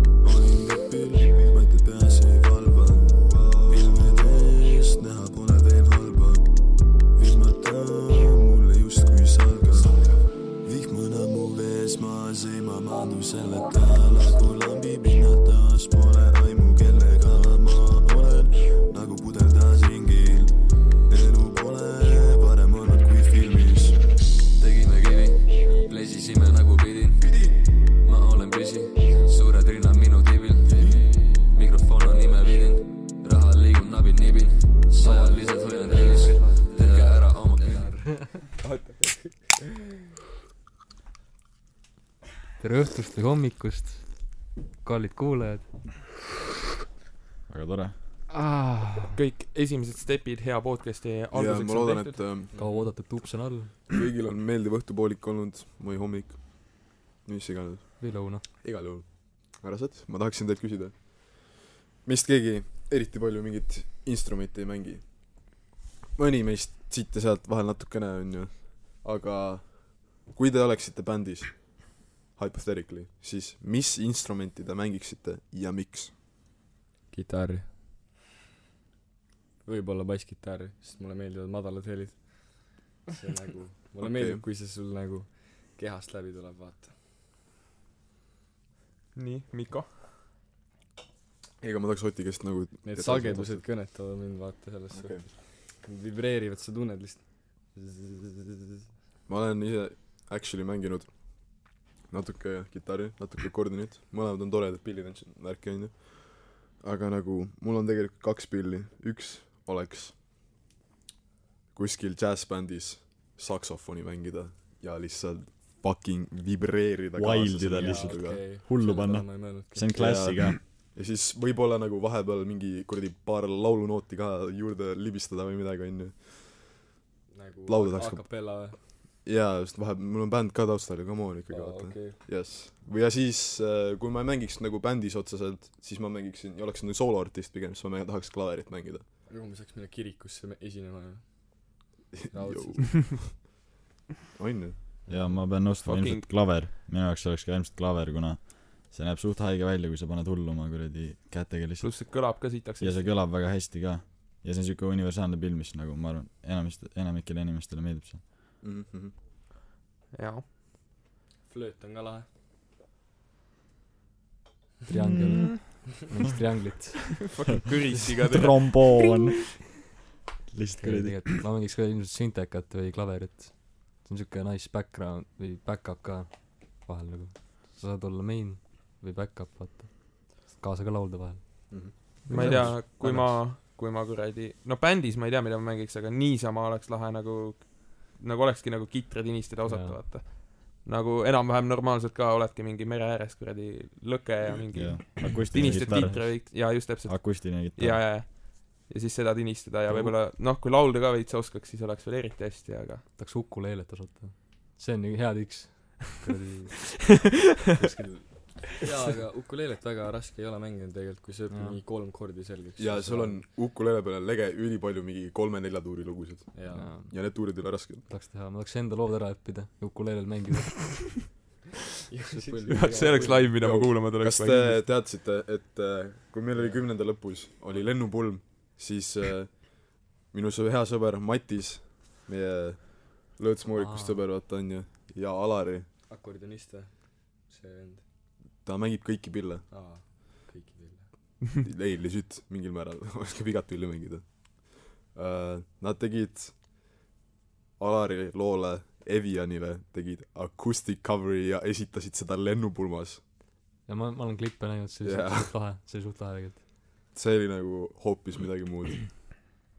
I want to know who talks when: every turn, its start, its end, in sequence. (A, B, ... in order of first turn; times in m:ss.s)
0:00.2-0:06.5 A
0:07.1-0:10.1 A
0:10.6-0:20.6 A
0:21.1-0:24.0 A
0:24.6-0:27.4 B
0:27.2-0:27.6 A
0:28.0-0:37.9 B
0:35.2-0:39.7 C
0:38.0-0:38.3 D
0:42.6-0:45.7 D
0:47.5-0:47.9 E
0:48.3-0:49.2 D
0:49.2-0:52.4 F
0:51.3-0:52.6 G
0:52.5-0:52.9 C
0:52.6-0:53.8 D
0:53.9-1:05.6 G
0:58.0-0:58.5 D
1:06.2-1:16.1 G
1:17.1-1:17.7 C
1:19.6-1:27.0 C
1:24.0-1:24.4 G
1:29.1-1:29.9 F
1:31.6-1:33.6 G
1:32.8-1:38.8 C
1:34.9-1:35.3 G
1:39.3-1:50.3 G
1:51.7-1:58.4 G
1:57.1-2:00.6 E
1:57.7-2:00.0 C
1:59.9-2:06.8 G
2:07.3-2:08.8 C
2:07.7-2:19.0 G
2:11.5-2:12.2 C
2:19.3-2:23.2 C
2:22.1-2:23.4 G
2:24.3-2:24.8 G
2:25.0-2:25.4 C
2:25.1-2:38.2 E
2:25.8-2:26.6 F
2:31.8-2:33.1 F
2:38.6-2:39.1 G
2:40.1-2:40.4 F
2:41.5-2:42.3 C
2:44.9-2:47.3 D
2:45.1-2:45.4 E
2:47.2-2:49.0 F
2:48.3-2:49.6 E
2:50.5-2:51.3 E
2:50.8-3:01.7 D
3:01.7-3:02.0 G
3:02.2-3:03.5 D
3:02.3-3:23.0 F
3:02.3-3:02.8 E
3:09.6-3:10.0 D
3:14.7-3:18.1 E
3:19.9-3:20.2 D
3:23.2-3:26.8 D
3:27.8-3:28.3 G
3:28.8-3:33.4 C
3:31.5-3:31.8 D
3:32.8-3:38.1 G
3:36.5-3:36.9 C
3:36.7-3:41.2 D
3:42.1-3:43.6 C
3:42.7-3:44.9 F
3:42.8-3:55.9 G
3:46.5-3:46.9 C
3:53.7-3:54.2 D
3:56.1-3:58.0 C
3:58.6-3:59.7 G
3:59.7-4:01.1 C
4:01.6-4:06.7 G
4:07.8-4:13.2 G
4:13.8-4:16.6 D
4:15.0-4:15.6 G
4:17.1-4:19.6 G